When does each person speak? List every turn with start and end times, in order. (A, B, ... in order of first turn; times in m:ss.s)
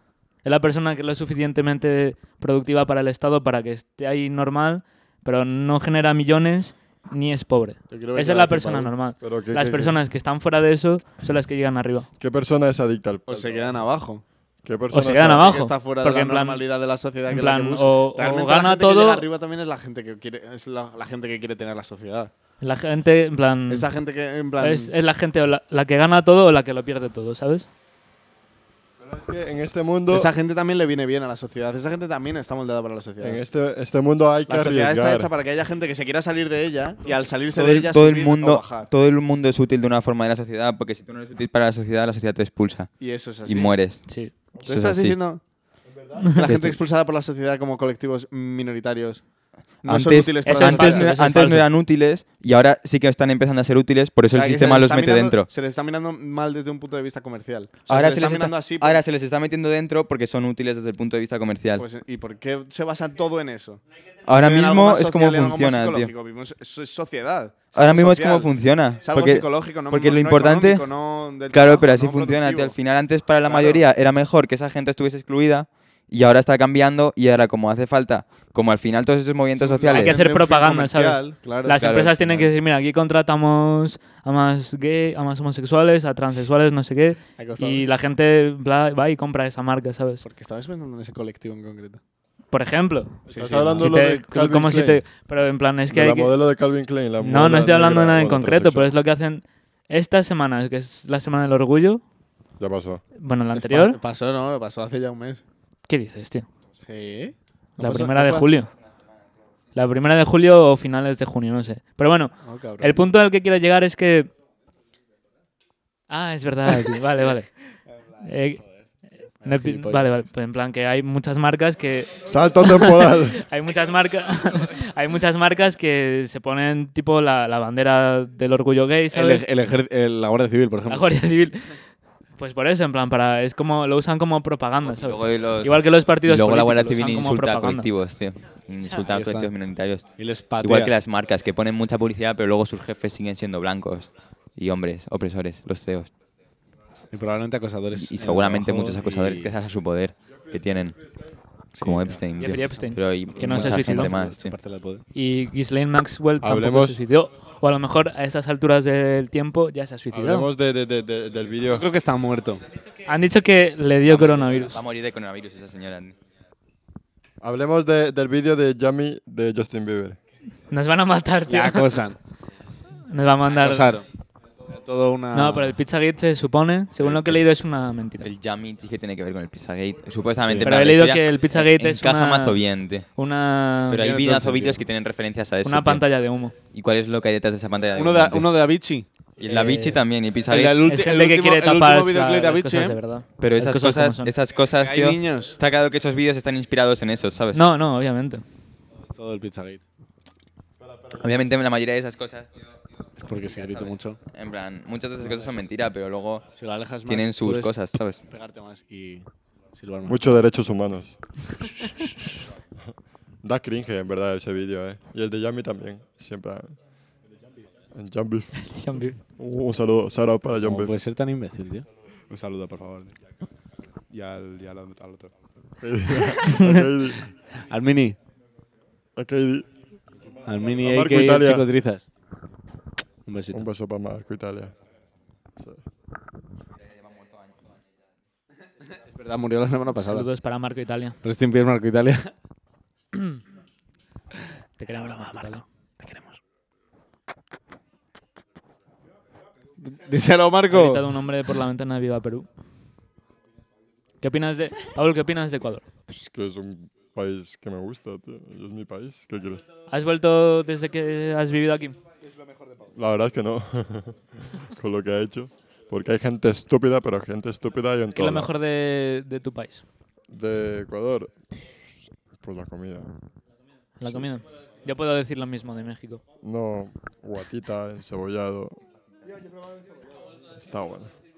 0:00.4-0:12.1 A
0:07.9-0:08.9 B
0:09.2-0:10.0 C
0:12.2-0:13.8 C
0:13.3-0:14.2 B
0:14.6-0:15.5 C
0:14.9-0:16.6 A
0:15.2-0:22.3 B
0:17.3-0:19.2 A
0:22.6-0:23.9 A
0:23.7-0:24.9 B
0:24.6-0:27.7 A
0:29.0-0:30.3 C
0:30.1-0:33.4 B
0:33.2-0:35.3 C
0:34.5-0:38.9 B
0:37.5-0:45.2 D
0:43.0-0:43.8 B
0:44.1-0:44.3 A
0:44.6-0:45.4 B
0:45.9-0:46.4 E
0:46.3-0:49.3 B
0:46.4-0:46.8 D
0:49.8-0:51.1 B
0:49.8-0:55.5 D
0:50.4-0:51.7 A
0:54.3-0:59.0 B
0:57.9-1:01.8 D
1:01.8-1:08.5 B
1:04.3-1:06.1 D
1:07.7-1:10.9 D
1:09.1-1:12.8 B
1:11.5-1:20.2 D
1:13.5-1:13.8 B
1:19.6-1:21.8 B
1:19.9-1:30.2 A
1:21.7-1:22.5 D
1:27.4-1:27.9 B
1:30.2-1:32.0 B
1:32.5-1:36.3 A
1:33.3-1:33.9 B
1:33.3-1:35.0 C
1:35.9-1:38.9 C
1:37.2-1:42.0 A
1:42.6-1:43.0 C
1:43.2-1:44.0 A
1:43.5-1:45.4 B
1:45.9-1:46.5 A
1:46.8-1:48.5 B
1:47.8-1:48.7 A
1:49.8-1:54.3 A
1:52.4-1:53.1 B
1:56.1-1:57.5 A
1:58.2-1:58.6 A
1:59.4-2:00.2 B
1:59.4-2:09.4 A
2:02.2-2:03.4 C
2:09.1-2:11.1 B
2:10.9-2:11.8 A
2:12.4-2:17.9 A
2:14.9-2:20.1 D
2:19.1-2:19.5 B
2:20.2-2:21.0 B
2:20.6-2:26.1 D
2:27.1-2:29.6 B
2:28.0-2:31.0 D
2:31.8-2:32.2 B
2:31.8-2:34.6 D
2:32.4-2:34.2 A
2:33.4-2:35.0 B
2:35.2-2:40.5 A
2:36.4-2:37.0 C
2:40.1-2:41.9 C
2:41.6-2:42.6 B
2:43.1-2:44.8 A
2:44.1-2:46.2 D
2:47.4-2:50.2 C
2:50.7-2:52.0 A
2:51.5-2:52.2 B
2:53.0-2:53.9 A
2:53.6-2:54.1 B
2:54.7-2:55.7 B
2:55.3-2:58.3 A
2:57.0-2:57.4 D
2:58.2-3:03.1 D
3:00.4-3:00.7 B
3:00.6-3:04.2 A
3:03.9-3:06.0 D
3:03.9-3:04.8 B
3:05.6-3:06.6 A
3:06.7-3:08.5 D
3:08.0-3:09.8 B
3:09.4-3:10.8 D
3:09.4-3:10.0 A
3:10.5-3:13.0 B
3:10.8-3:14.3 A
3:13.4-3:17.7 D
3:14.8-3:15.6 B
3:17.5-3:18.4 A
3:19.0-3:19.8 B
3:20.8-3:21.2 C
3:21.2-3:22.5 D
3:23.2-3:24.2 B
3:23.4-3:23.6 D
3:24.2-3:26.5 D
3:26.6-3:27.7 B
3:27.1-3:28.2 D
3:28.3-3:30.3 B
3:30.0-3:31.1 C
3:33.4-3:36.8 C
3:37.4-3:37.7 E
3:37.9-3:41.0 C
3:38.6-3:39.2 A
3:40.6-3:41.9 B
3:42.3-3:43.2 E
3:44.1-3:45.4 E
3:45.8-3:47.3 C
3:46.3-3:46.9 A
3:47.7-3:48.2 B
3:49.2-3:49.7 C
3:50.5-3:52.1 B
3:50.8-3:51.7 C
3:53.3-3:53.6 B
3:53.5-3:54.7 C
3:56.8-3:57.8 D
3:59.0-4:00.3 B
4:00.0-4:01.2 A
4:01.2-4:02.3 B
4:03.1-4:03.4 A
4:04.8-4:05.6 A
4:06.0-4:06.3 B
4:09.8-4:11.1 B
4:10.7-4:12.5 A
4:14.2-4:15.8 A
4:16.1-4:19.6 C
4:19.9-4:22.0 A
4:22.2-4:23.0 E
4:22.9-4:28.5 C
4:28.2-4:29.8 A
4:30.3-4:31.3 C
4:32.4-4:33.1 C
4:34.0-4:36.2 A
4:34.0-4:34.3 C
4:36.4-4:38.8 C
4:39.2-4:40.4 E
4:40.6-4:41.1 C